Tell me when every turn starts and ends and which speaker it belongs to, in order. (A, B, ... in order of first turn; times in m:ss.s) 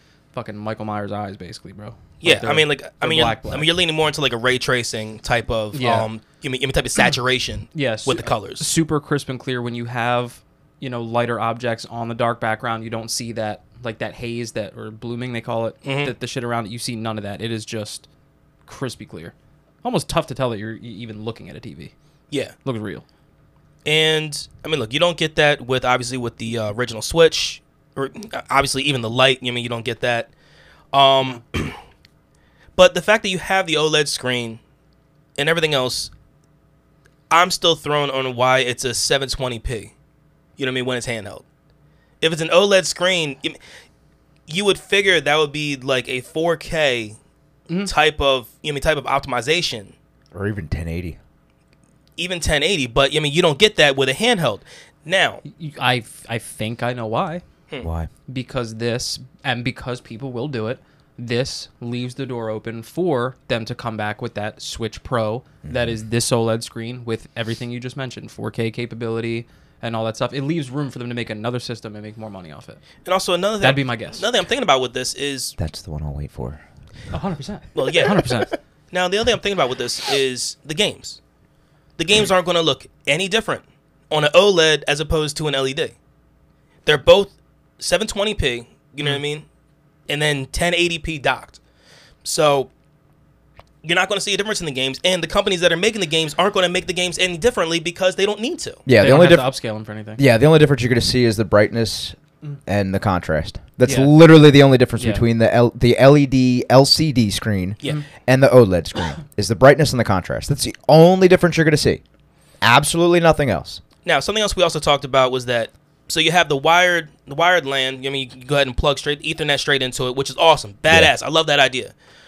0:00.3-0:03.7 A
0:02.2-0:08.7 B
0:05.7-0:06.1 A
0:07.7-0:18.1 A
0:15.8-0:16.1 B
0:18.7-0:21.9 A
0:22.6-0:23.0 A
0:23.8-0:30.3 B
0:30.9-0:31.8 B
0:32.8-0:34.6 B
0:35.4-0:36.1 B
0:37.3-0:39.9 B
0:40.6-0:41.4 B
0:42.2-0:43.6 B
0:44.5-0:47.2 B
0:47.8-0:49.9 B
0:50.3-0:51.2 C
0:52.2-0:55.4 B
0:55.4-0:57.4 A
0:57.8-0:58.1 C
0:58.3-1:12.8 A
1:05.6-1:06.0 C
1:13.0-1:15.6 B
1:13.6-1:14.2 A
1:15.6-1:16.6 C
1:17.1-1:18.5 A
1:17.8-1:21.2 B
1:22.0-1:26.0 B
1:26.9-1:29.4 B
1:30.1-1:31.6 B
1:32.2-1:32.7 B
1:33.8-1:38.8 B
1:38.9-1:39.5 C
1:39.0-1:40.2 A
1:40.2-1:42.2 C
1:42.7-1:52.0 C
1:43.9-1:44.1 A
1:45.0-1:45.2 A
1:52.6-1:53.8 C
1:54.0-2:01.9 B